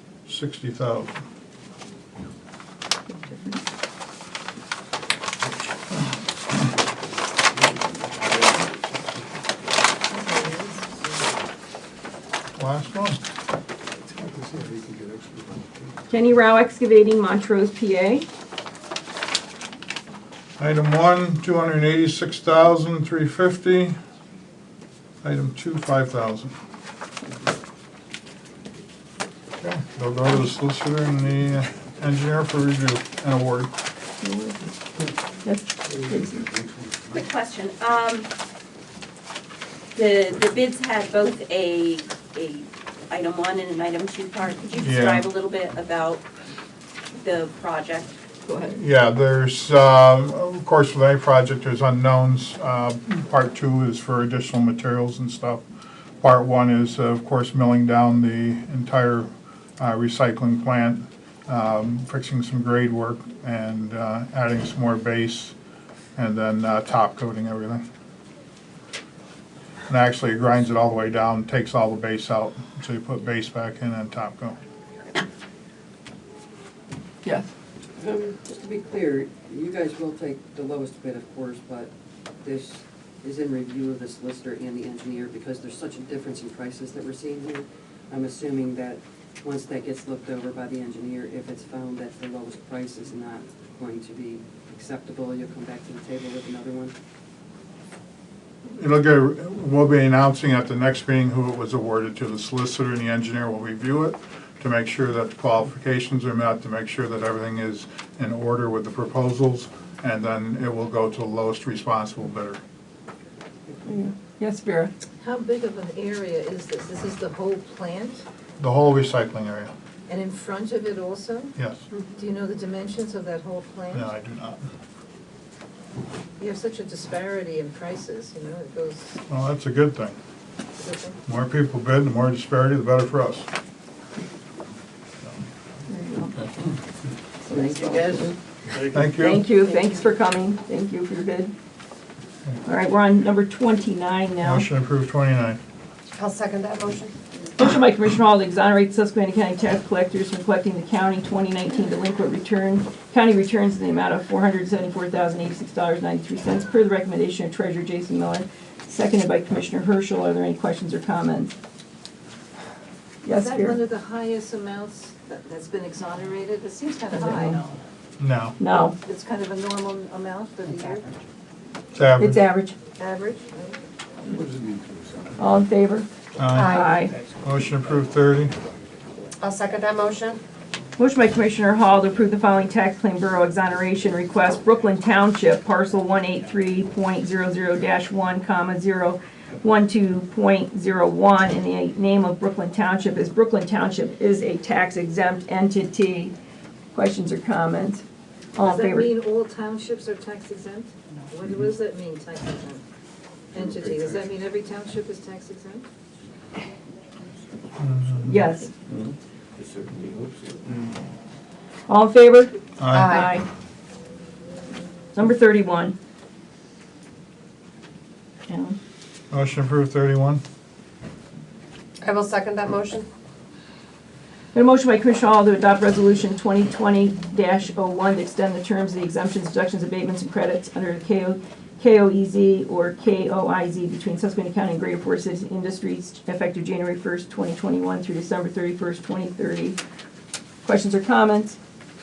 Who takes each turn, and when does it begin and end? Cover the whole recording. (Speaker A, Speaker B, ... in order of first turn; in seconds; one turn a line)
Speaker A: 0.3-1.2
Speaker B: 3.3-3.6
Speaker C: 10.1-10.9
Speaker A: 12.6-13.2
Speaker D: 14.1-15.9
Speaker B: 16.1-18.2
Speaker A: 20.6-24.0
Speaker A: 25.2-26.5
Speaker A: 29.6-33.7
Speaker B: 34.2-34.7
Speaker B: 35.4-36.5
Speaker D: 36.1-37.1
Speaker E: 37.1-38.3
Speaker E: 40.0-46.2
Speaker A: 44.8-45.3
Speaker E: 47.2-48.1
Speaker B: 48.5-48.8
Speaker A: 48.7-55.6
Speaker A: 56.2-65.5
Speaker A: 66.2-67.8
Speaker A: 69.9-74.6
Speaker B: 77.2-77.5
Speaker F: 78.0-96.9
Speaker A: 98.8-112.6
Speaker B: 113.8-114.9
Speaker C: 115.2-118.2
Speaker A: 118.6-119.7
Speaker C: 120.1-121.5
Speaker C: 122.1-124.1
Speaker A: 123.9-124.6
Speaker C: 126.4-129.2
Speaker A: 129.3-130.2
Speaker C: 130.8-131.2
Speaker A: 131.2-133.5
Speaker B: 135.9-136.3
Speaker B: 137.4-138.1
Speaker F: 137.5-138.3
Speaker A: 138.9-139.4
Speaker B: 139.2-141.5
Speaker B: 142.6-144.7
Speaker A: 144.4-145.6
Speaker G: 146.1-147.1
Speaker B: 147.6-161.5
Speaker B: 163.2-163.8
Speaker C: 163.3-167.8
Speaker B: 167.1-167.6
Speaker A: 168.2-168.6
Speaker B: 168.6-169.0
Speaker C: 169.0-171.1
Speaker A: 171.9-172.4
Speaker B: 172.2-172.8
Speaker C: 173.0-173.8
Speaker D: 174.2-175.5
Speaker B: 175.4-177.1
Speaker A: 176.4-176.8
Speaker G: 176.5-177.0
Speaker A: 177.4-178.5
Speaker G: 179.4-180.4
Speaker B: 181.0-196.3
Speaker B: 196.9-198.0
Speaker B: 198.6-199.2
Speaker C: 198.6-202.8
Speaker C: 203.5-205.8
Speaker D: 203.5-204.3
Speaker A: 207.8-208.4
Speaker B: 208.2-208.7
Speaker D: 209.6-210.6
Speaker B: 211.9-213.4
Speaker A: 212.8-213.2
Speaker G: 212.9-213.3
Speaker B: 215.1-215.9
Speaker B: 218.5-218.8
Speaker A: 219.3-220.4
Speaker G: 222.0-223.1
Speaker B: 224.5-239.8
Speaker B: 240.6-241.6